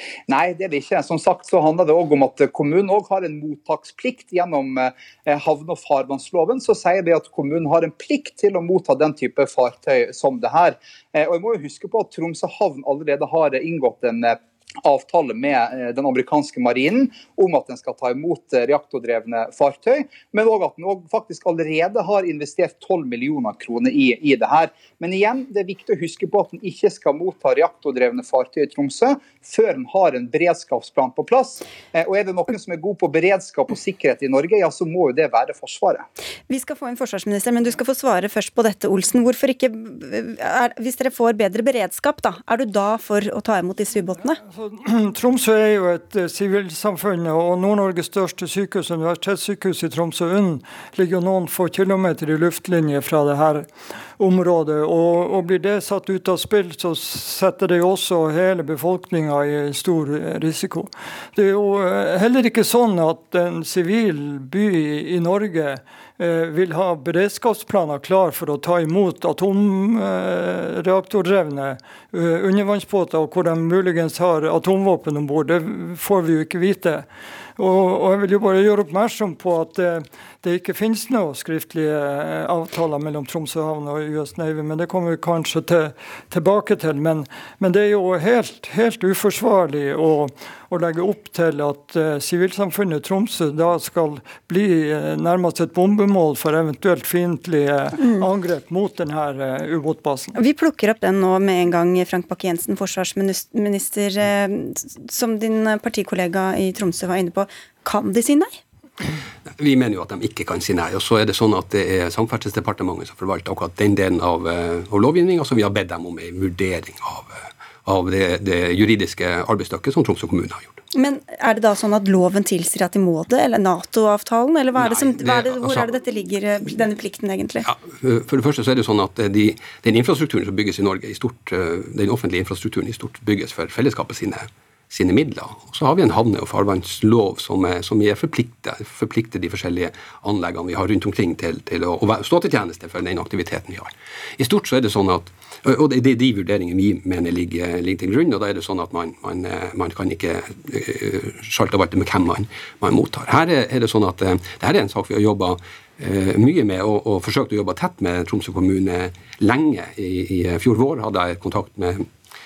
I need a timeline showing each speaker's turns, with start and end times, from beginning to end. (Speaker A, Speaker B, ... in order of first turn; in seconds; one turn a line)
Speaker A: 0.3-36.1
Speaker B: 36.5-44.4
Speaker C: 44.4-100.3
Speaker B: 98.0-98.3
Speaker B: 100.3-108.5
Speaker D: 109.6-120.8
Speaker B: 120.9-127.7
Speaker D: 124.7-125.9
Speaker D: 127.6-162.1